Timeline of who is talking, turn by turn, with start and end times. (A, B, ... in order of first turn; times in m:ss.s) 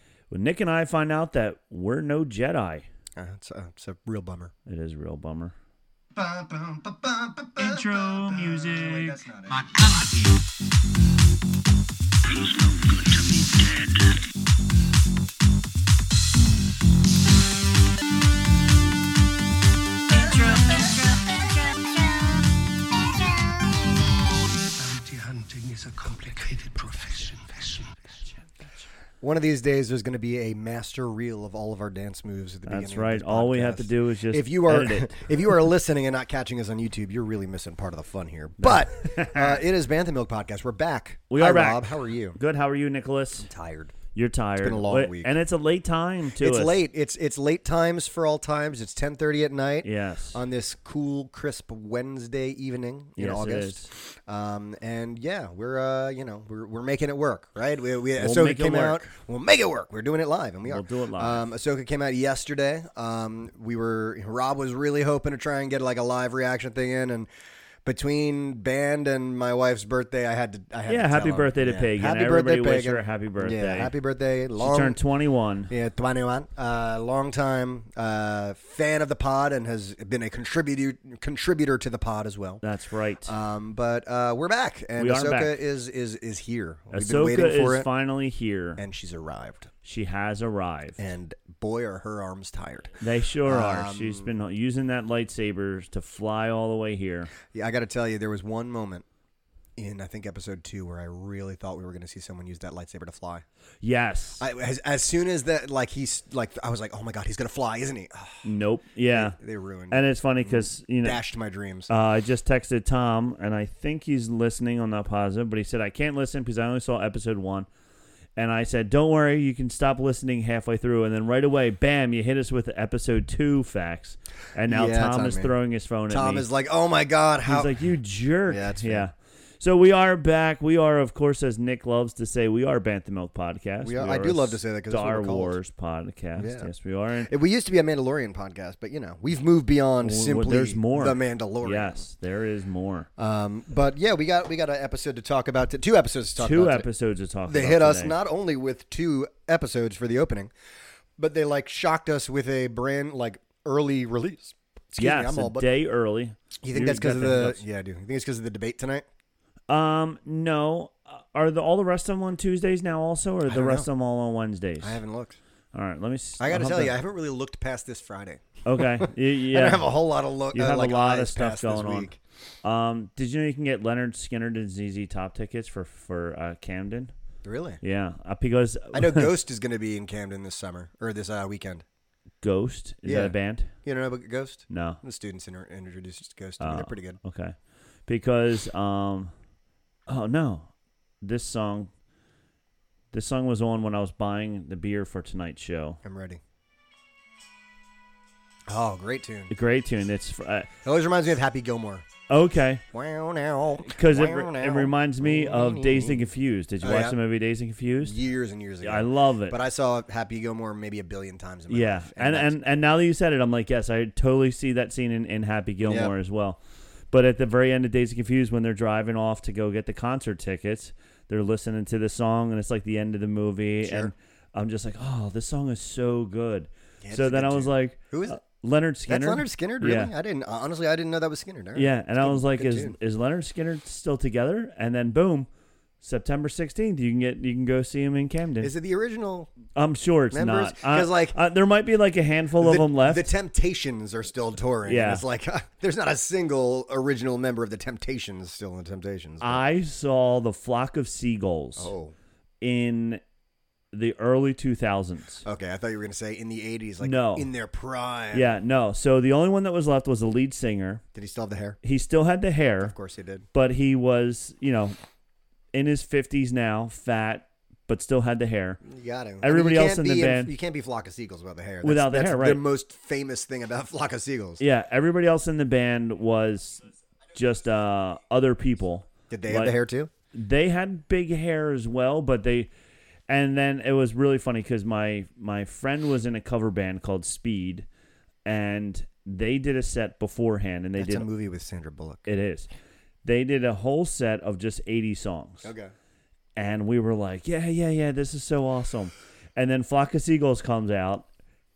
0:00.3-0:02.8 A
0:03.2-0:04.5 B
0:04.7-0:05.5 A
0:06.2-0:09.9 B
0:07.6-0:09.2 A
0:20.2-0:20.9 A
0:24.7-0:28.3 C
0:29.2-0:42.4 B
0:32.7-0:35.3 A
0:38.6-0:39.6 A
0:41.3-0:43.5 A
0:43.4-0:44.0 B
0:44.2-0:46.8 A
0:44.6-0:45.3 B
0:46.4-1:07.3 B
0:49.8-0:50.4 A
0:53.2-0:53.9 A
0:58.2-0:59.1 A
1:00.7-1:01.4 A
1:07.8-1:15.0 B
1:10.9-1:13.9 A
1:14.6-1:15.7 A
1:15.7-1:22.6 B
1:22.6-1:23.3 A
1:23.2-1:27.9 B
1:25.0-1:25.6 A
1:26.9-1:28.8 A
1:28.8-1:29.7 B
1:29.8-1:31.0 A
1:31.0-1:34.3 B
1:33.0-1:37.3 A
1:37.4-1:39.1 B
1:39.8-1:43.4 B
1:43.8-1:44.4 A
1:44.4-1:48.5 B
1:48.4-1:49.4 A
1:49.1-1:51.9 B
1:49.9-1:51.2 A
1:51.9-1:57.7 A
1:58.4-2:06.4 A
2:04.7-2:05.5 B
2:06.1-2:07.7 B
2:07.4-2:17.3 A
2:08.5-2:09.1 B
2:13.8-2:15.6 B
2:16.4-2:16.7 B
2:17.2-2:22.0 B
2:20.0-2:23.1 A
2:23.2-2:26.9 B
2:26.4-2:28.2 A
2:27.5-2:30.5 B
2:31.2-2:35.7 B
2:35.0-2:37.6 A
2:36.6-2:39.0 B
2:39.7-2:45.0 A
2:43.5-2:43.9 B
2:44.8-2:45.4 B
2:45.7-2:47.0 A
2:46.4-2:52.2 B
2:48.6-2:49.9 A
2:50.5-2:52.1 A
2:52.6-2:57.1 A
2:57.4-2:57.8 B
2:57.8-2:59.3 A
2:58.9-3:01.8 B
3:02.4-3:03.7 A
3:03.0-3:07.2 B
3:04.7-3:05.0 A
3:06.6-3:07.6 A
3:08.1-3:09.3 A
3:10.1-3:10.7 A
3:11.2-3:11.9 A
3:13.1-3:16.0 A
3:16.0-3:16.4 B
3:18.7-3:19.5 B
3:19.5-3:20.7 A
3:20.8-3:22.1 B
3:22.3-3:22.8 A
3:22.9-3:26.2 B
3:24.0-3:28.2 A
3:26.8-3:27.2 B
3:28.0-3:32.5 B
3:28.8-3:29.6 A
3:31.7-3:36.6 A
3:35.8-3:36.1 B
3:37.1-3:50.1 A
3:43.8-3:44.1 B
3:47.0-3:48.4 B
3:49.1-3:53.0 B
3:51.8-3:55.5 A
3:56.0-3:58.7 A
3:58.6-3:59.6 B
3:59.7-4:03.3 A
4:00.3-4:01.4 B
4:02.6-4:09.6 B
4:04.8-4:05.2 A
4:09.4-4:11.9 A
4:11.8-4:12.1 B
4:12.6-4:13.2 A
4:13.9-4:15.4 A
4:15.4-4:18.4 B
4:17.0-4:17.5 A
4:18.3-4:21.0 A
4:21.2-4:21.8 B
4:21.8-4:22.9 A
4:22.8-4:23.4 B
4:23.5-4:25.0 A
4:25.7-4:28.8 A
4:28.8-4:34.6 B
4:29.4-4:30.5 A
4:31.8-4:32.6 A
4:34.6-4:39.8 A
4:39.3-4:40.1 B
4:40.3-4:42.7 A
4:43.3-4:47.9 A
4:48.4-4:51.3 A
4:51.0-4:52.3 B
4:52.3-4:52.7 A
4:53.2-4:55.7 A
4:55.6-4:55.9 B
4:56.6-5:01.3 A